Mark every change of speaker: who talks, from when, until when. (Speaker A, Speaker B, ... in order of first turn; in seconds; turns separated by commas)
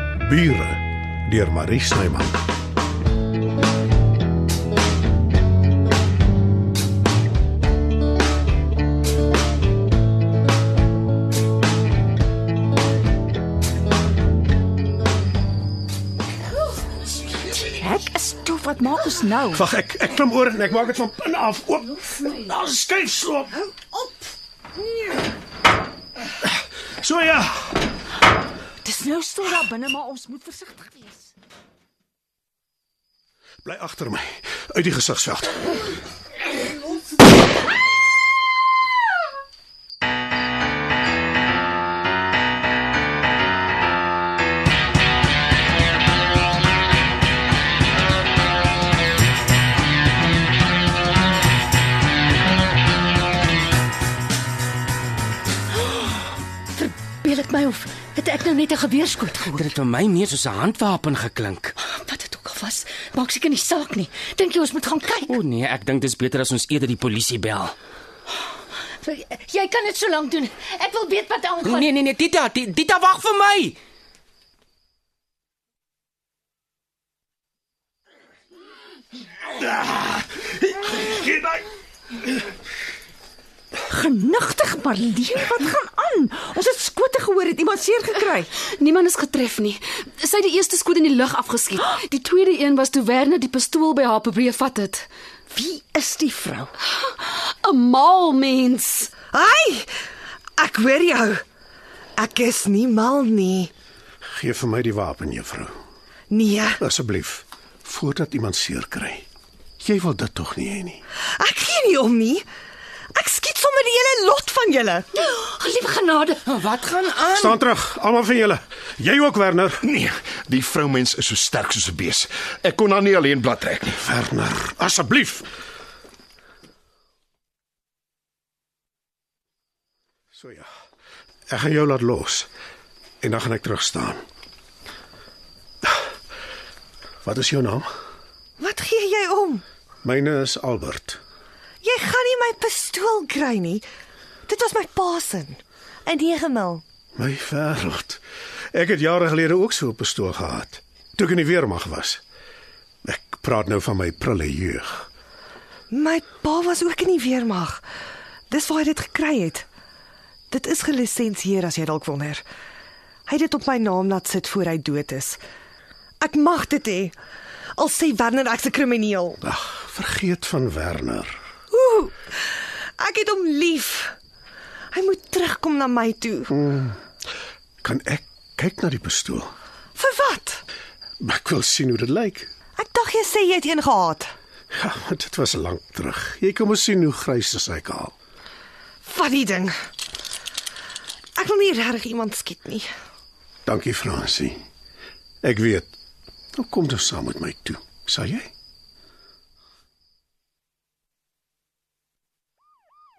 Speaker A: 0.2-2.4, Speaker B: 17.7-19.7, Speaker A: 19.6-23.6, Speaker A: 26.4-27.7, Speaker B: 28.8-31.3, Speaker A: 33.6-35.7, Speaker C: 56.7-59.7, Speaker D: 59.5-61.7, Speaker C: 61.8-65.3, Speaker D: 65.3-67.7, Speaker C: 69.0-71.9, Speaker D: 71.6-73.8, Speaker B: 83.9-88.5, Speaker E: 88.6-95.1, Speaker B: 95.5-96.7, Speaker E: 96.9-99.1, Speaker F: 99.3-99.9, Speaker F: 100.6-101.4, Speaker F: 102.2-103.7, Speaker A: 104.3-105.7, Speaker F: 106.3-106.8, Speaker A: 106.8-109.2, Speaker A: 109.8-111.0, Speaker F: 111.3-112.5, Speaker F: 113.1-115.1, Speaker C: 115.2-116.4, Speaker D: 116.5-117.6, Speaker A: 117.3-119.8, Speaker G: 119.8-124.0, Speaker A: 124.0-125.5, Speaker A: 130.3-130.7, Speaker A: 131.5-132.5, Speaker A: 133.2-134.2, Speaker A: 137.2-137.9, Speaker F: 138.6-139.6, Speaker A: 140.0-141.2, Speaker F: 141.8-143.8, Speaker F: 144.4-146.8, Speaker A: 147.2-148.2, Speaker A: 148.7-152.2, Speaker A: 153.0-155.0, Speaker F: 155.9-157.8, Speaker F: 158.5-159.7, Speaker F: 160.5-162.4, Speaker F: 163.3-165.4, Speaker F: 166.2-167.2, Speaker F: 167.7-169.4, Speaker A: 169.4-171.4, Speaker F: 171.7-172.5, Speaker F: 173.0-174.1, Speaker F: 174.9-176.5, Speaker A: 176.5-177.0, Speaker A: 177.8-179.5, Speaker F: 179.9-180.6, Speaker A: 181.2-182.5, Speaker F: 182.8-184.3, Speaker A: 184.7-188.1, Speaker F: 189.0-189.8, Speaker F: 191.3-192.9, Speaker A: 193.7-194.6, Speaker A: 195.4-195.9, Speaker A: 196.6-198.5